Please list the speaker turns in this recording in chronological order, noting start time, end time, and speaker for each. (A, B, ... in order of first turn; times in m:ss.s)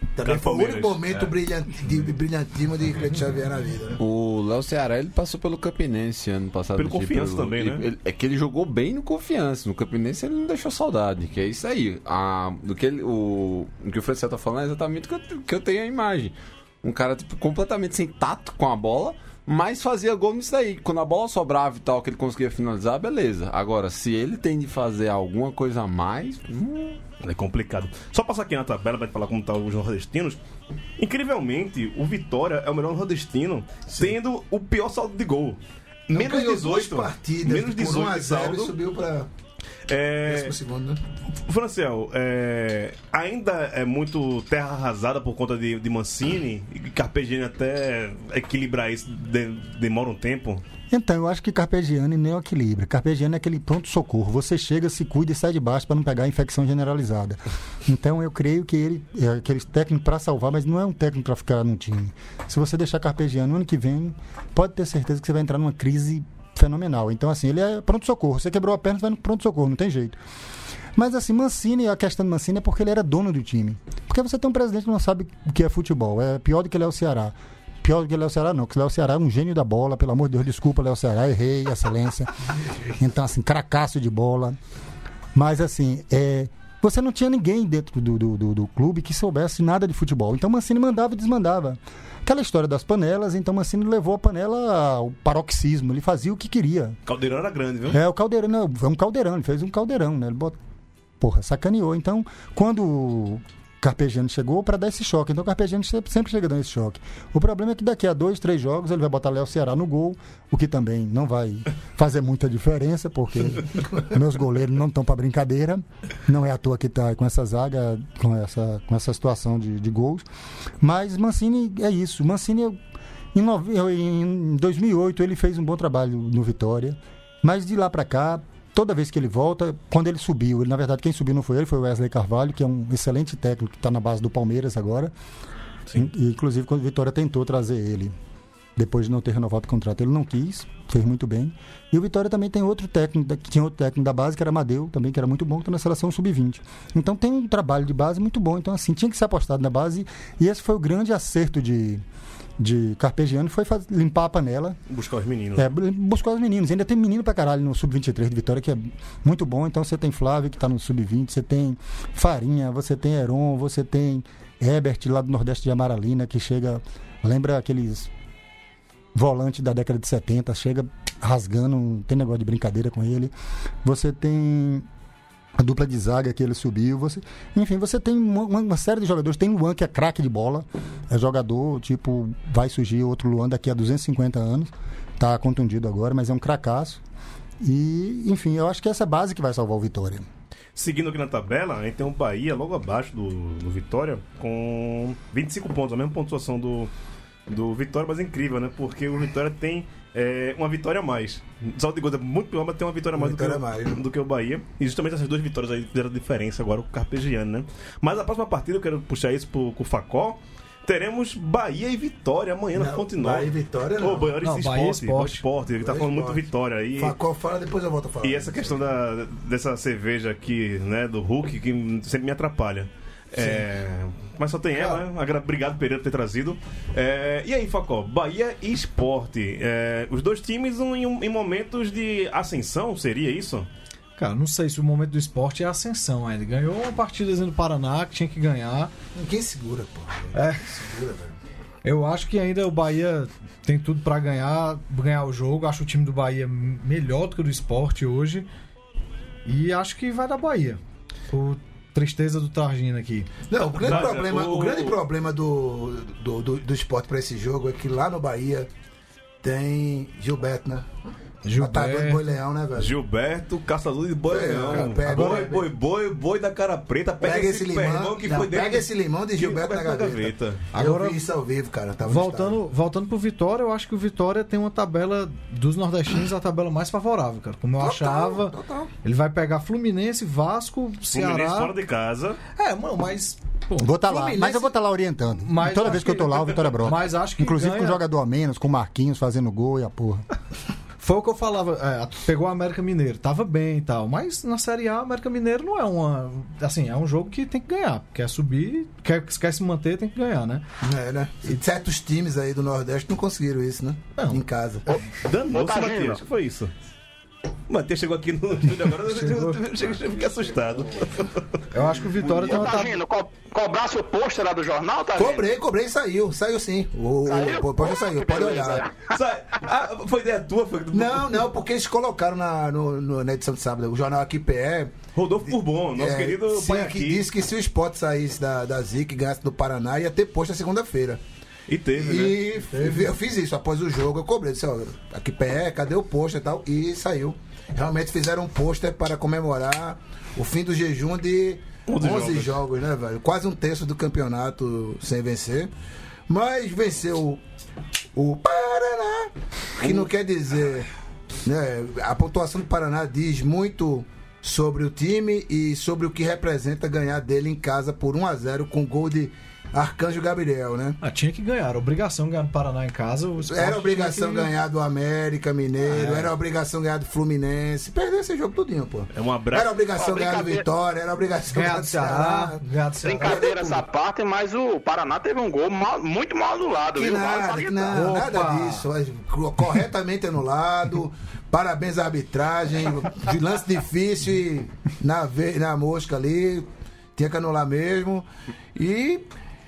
0:00.1-0:04.0 A
0:00.2-0:01.0 B
0:04.0-0:27.0 C
0:06.8-0:07.8 B
0:27.2-0:30.4 B
0:31.0-0:35.6 B
0:36.1-0:38.7 B
0:36.1-0:39.3 A
0:39.9-0:40.5 B
0:40.2-0:41.0 A
0:41.5-0:50.6 B
0:50.9-1:10.2 D
1:11.0-1:22.3 D
1:22.9-1:24.6 D
1:25.3-1:37.0 D
1:37.1-1:38.0 B
1:37.9-1:40.6 D
1:41.2-2:00.2 D
2:00.8-2:02.8 D
2:03.3-2:15.1 D
2:15.9-2:18.1 D
2:18.8-2:32.0 D
2:32.6-2:34.8 D
2:34.9-2:35.7 B
2:35.6-2:48.1 D
2:49.1-2:53.3 D
2:53.8-2:54.9 D
2:55.6-3:07.0 D
3:07.6-3:10.2 D
3:10.8-3:16.9 B
3:17.5-3:37.2 B
3:23.2-3:24.0 A
3:32.7-3:34.4 A
3:34.4-3:35.4 E
3:35.8-3:36.4 A
3:37.0-3:38.8 A
3:38.2-3:53.7 B
3:43.4-3:43.6 A
3:44.8-3:45.0 A
3:54.2-3:58.9 E
3:59.2-4:01.3 A
4:00.3-4:00.7 E
4:01.8-4:08.5 E
4:09.4-4:13.3 E
4:13.5-4:18.7 A
4:13.7-4:15.0 B
4:19.4-4:20.9 A
4:21.4-4:22.2 E
4:21.6-4:23.0 A
4:22.8-4:30.6 B
4:24.3-4:25.6 A
4:25.0-4:25.5 E
4:27.2-4:32.6 A
4:30.7-4:31.2 E
4:32.0-4:41.8 E
4:37.8-4:38.9 A
4:41.1-4:42.4 B
4:42.6-4:43.9 E
4:43.8-4:50.2 D
4:44.0-4:44.7 A
4:45.4-4:48.0 E
4:51.0-5:00.6 E
5:00.8-5:04.9 A
5:04.2-5:04.4 E
5:04.9-5:06.2 F
5:05.2-5:06.7 B
5:07.7-5:11.4 B
5:09.1-5:09.6 E
5:11.7-5:13.0 E
5:12.4-5:15.4 F
5:15.2-5:18.9 A
5:17.3-5:19.1 F
5:19.1-5:21.4 B
5:20.9-5:24.9 A
5:25.1-5:27.3 B
5:25.5-5:31.2 A
5:31.7-5:32.4 B
5:31.9-5:45.7 A
5:41.9-5:42.6 B
5:46.3-5:47.4 A
5:48.2-5:50.9 A
5:49.8-5:50.1 C
5:51.4-6:01.0 A
6:01.0-6:04.5 E
6:03.5-6:12.6 A
6:05.9-6:06.3 E
6:09.1-6:09.8 B
6:10.0-6:10.6 F
6:11.5-6:13.5 E
6:13.0-6:17.9 F
6:13.2-6:13.8 A
6:17.0-6:29.2 A
6:17.9-6:18.9 E